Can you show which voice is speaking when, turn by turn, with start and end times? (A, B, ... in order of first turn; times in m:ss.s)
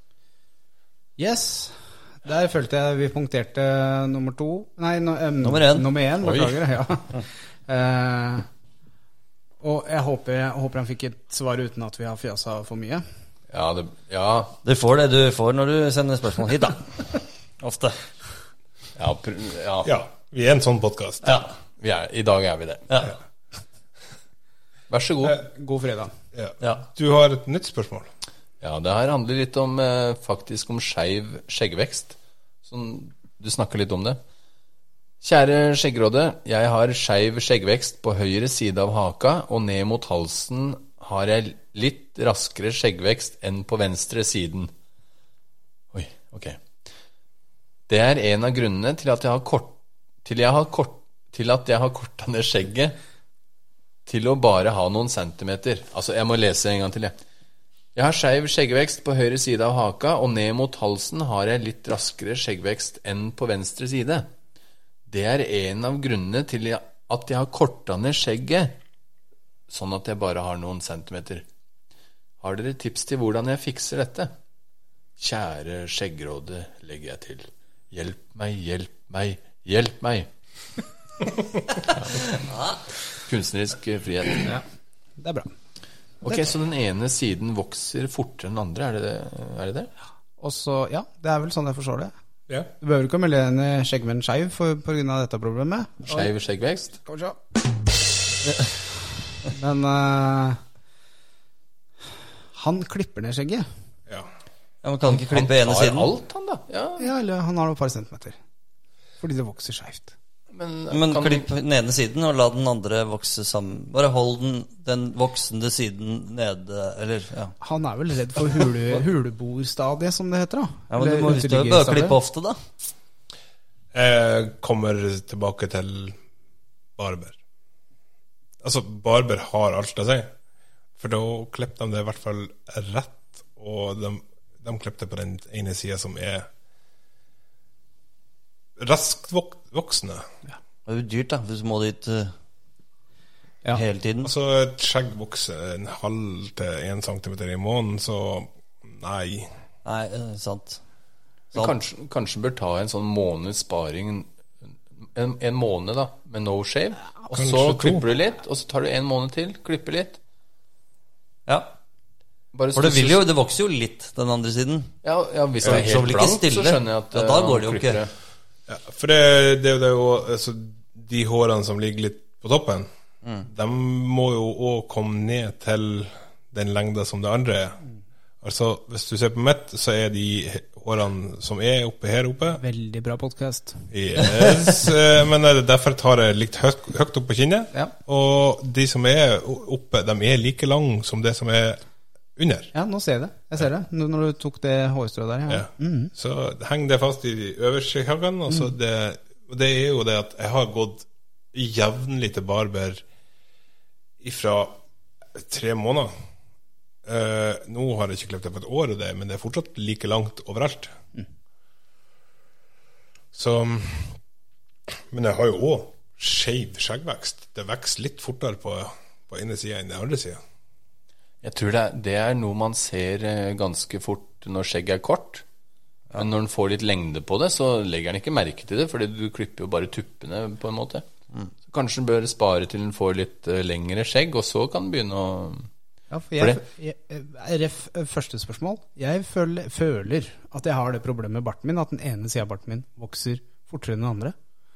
0:01.2-0:08.4 A
0:05.4-0:05.9 B
0:06.2-0:06.7 C
0:09.6-0:13.0 A
0:13.5-0:14.6 C
0:14.6-0:18.0 B
0:19.0-0:19.9 C
0:19.8-0:21.4 D
0:21.8-0:23.0 C
0:22.9-0:23.2 B
0:24.9-0:25.4 C
0:25.4-0:26.1 A
0:26.3-0:28.1 D
0:28.6-0:34.2 C
0:35.2-0:44.7 C
0:45.9-0:46.6 C
0:47.9-0:53.0 C
0:54.0-0:57.2 C
0:57.9-1:04.3 C
1:05.1-1:08.8 C
1:09.7-1:11.4 C
1:12.4-1:14.3 C
1:15.2-1:20.3 C
1:21.9-1:22.3 C
1:22.3-1:22.8 B
1:23.2-1:24.5 C
1:25.2-1:25.5 A
1:26.2-1:29.9 C
1:30.4-1:32.1 A
1:32.8-1:36.3 A
1:36.1-1:37.0 C
1:37.0-1:37.4 A
1:39.5-1:40.6 A
1:42.5-1:43.7 A
1:44.8-1:46.1 B
1:45.0-1:47.1 C
1:47.0-1:48.4 A
1:49.2-1:50.1 A
1:50.5-1:51.5 C
1:50.9-1:57.5 B
1:57.6-2:02.2 A
2:00.9-2:02.6 B
2:03.9-2:06.2 D
2:07.0-2:07.4 D
2:08.6-2:10.3 D
2:11.0-2:16.5 D
2:18.8-2:20.2 D
2:20.9-2:22.3 B
2:23.7-2:24.3 B
2:24.2-2:29.5 D
2:29.8-2:30.8 B
2:31.6-2:40.2 C
2:37.3-2:38.0 D
2:41.5-2:41.7 B
2:42.5-2:43.3 C
2:42.7-2:44.9 B
2:45.0-2:48.1 C
2:45.6-2:48.0 B
2:48.7-2:52.9 D
2:53.4-2:57.8 D
2:58.4-3:02.6 D
3:02.6-3:03.9 A
3:03.9-3:11.8 D
3:12.4-3:12.7 D
3:12.7-3:16.1 A
3:15.5-3:23.0 D
3:24.2-3:24.8 D
3:25.4-3:26.1 D
3:27.0-3:30.9 D
3:33.3-3:34.2 D
3:35.1-3:40.4 D
3:41.4-3:45.4 C
3:46.1-3:51.0 C
3:51.7-3:55.7 C
3:56.1-4:04.3 A